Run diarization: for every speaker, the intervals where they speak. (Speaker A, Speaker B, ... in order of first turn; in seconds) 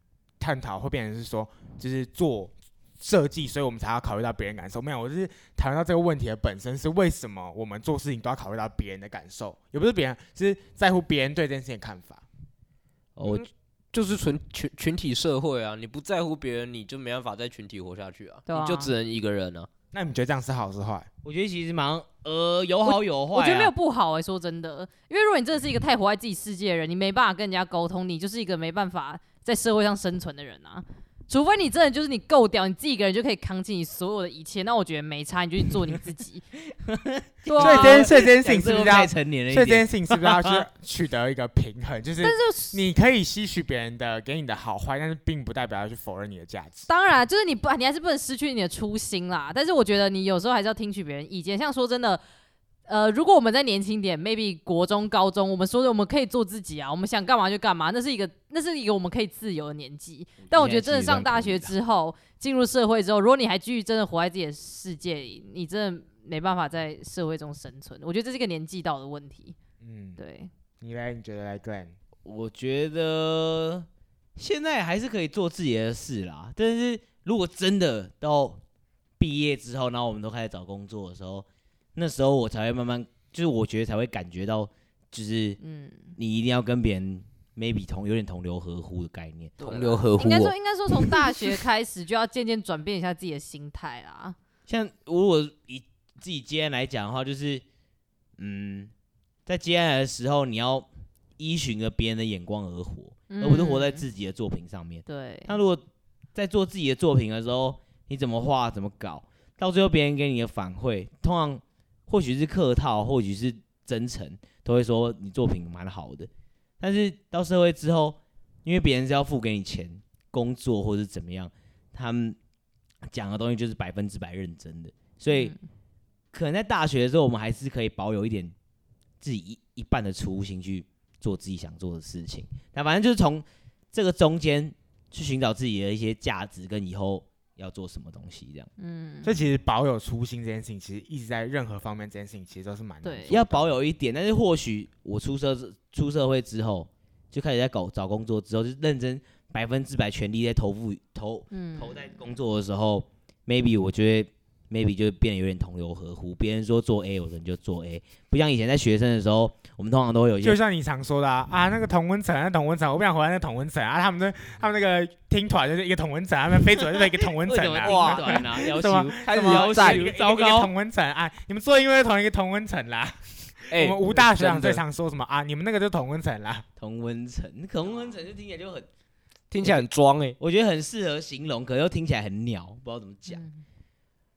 Speaker A: 0.4-12.2, 19.9-21.1, 37.6-46.9, 69.8-70.2, 70.8-71.9, 139.2-143.7, 160.4-176.7
Speaker B: 13.2-13.4, 21.2-23.7, 36.8-40.6, 60.4-61.7, 72.2-78.6, 79.2-85.6, 86.2-90.0, 94.7-97.6, 98.4-98.9, 99.5-105.8, 106.3-122.4, 123.1-125.5, 126.3-128.5, 129.2-138.7, 143.3-160.6, 167.4-170.7, 176.8-178.9, 180.4-183.4
Speaker C: 13.2-19.7, 89.6-90.5, 167.8-170.1, 173.7-174.8, 179.5-180.4
Speaker D: 18.5-18.9, 22.8-36.4, 37.5-38.1, 42.2-42.8, 46.9-52.2, 52.9-69.5, 70.2-70.5, 85.6-86.1, 89.6-94.3, 103.3-104.0, 105.1-105.5, 125.3-125.6, 138.8-139.3, 143.0-143.3, 151.5-152.1, 177.8-178.1, 183.3-183.6